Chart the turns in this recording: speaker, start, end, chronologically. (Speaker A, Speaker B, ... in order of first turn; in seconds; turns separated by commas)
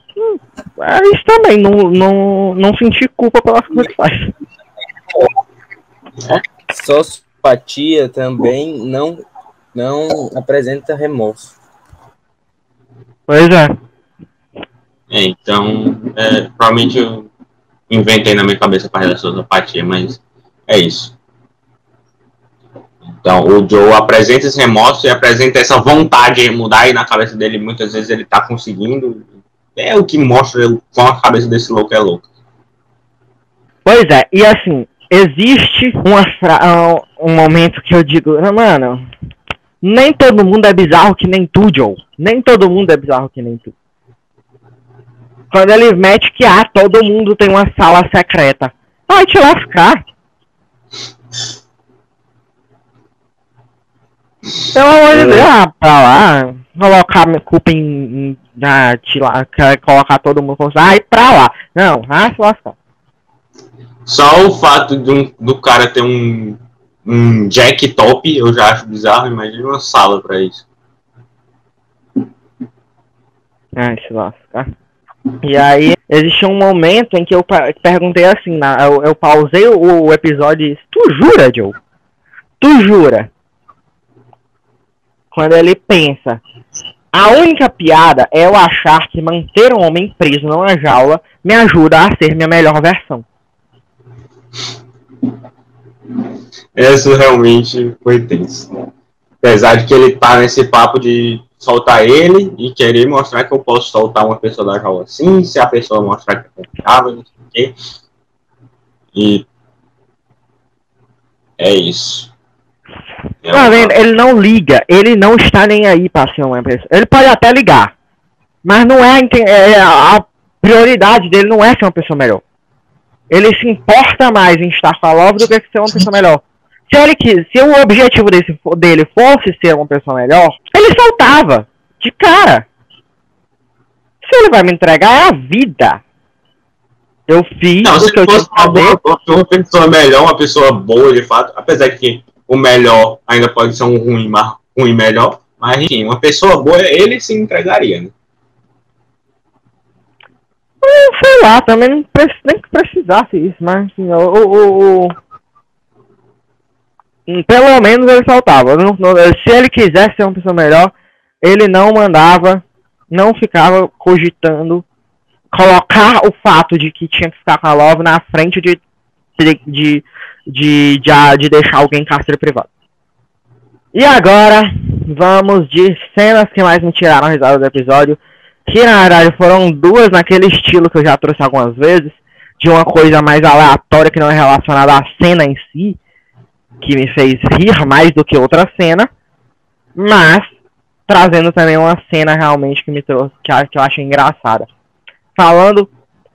Speaker A: 0.2-4.3, Speaker B: 6.7-9.2, Speaker B: 9.7-11.5, Speaker A: 13.3-13.8, Speaker C: 15.1-17.3, Speaker C: 17.9-21.1, Speaker C: 23.2-32.2, Speaker A: 33.9-39.1, Speaker A: 39.8-43.7, Speaker A: 45.5-50.0, Speaker A: 54.7-62.8, Speaker C: 55.1-55.5, Speaker C: 64.0-70.6, Speaker A: 73.8-74.7, Speaker A: 75.4-81.8, Speaker A: 82.6-83.3, Speaker A: 85.3-86.4, Speaker A: 87.1-93.2, Speaker C: 96.8-98.7, Speaker C: 99.4-107.8, Speaker C: 109.1-109.5, Speaker C: 111.6-112.3, Speaker C: 113.4-114.0, Speaker A: 113.5-117.9, Speaker A: 118.6-122.4, Speaker A: 123.3-132.7, Speaker A: 134.2-136.0, Speaker A: 137.3-139.0, Speaker C: 137.8-148.1, Speaker A: 150.8-155.1, Speaker A: 157.3-164.8, Speaker A: 165.5-168.8, Speaker A: 169.4-172.7, Speaker A: 173.9-186.0, Speaker A: 186.8-189.1, Speaker A: 190.0-190.5, Speaker A: 191.1-194.7, Speaker A: 195.4-195.9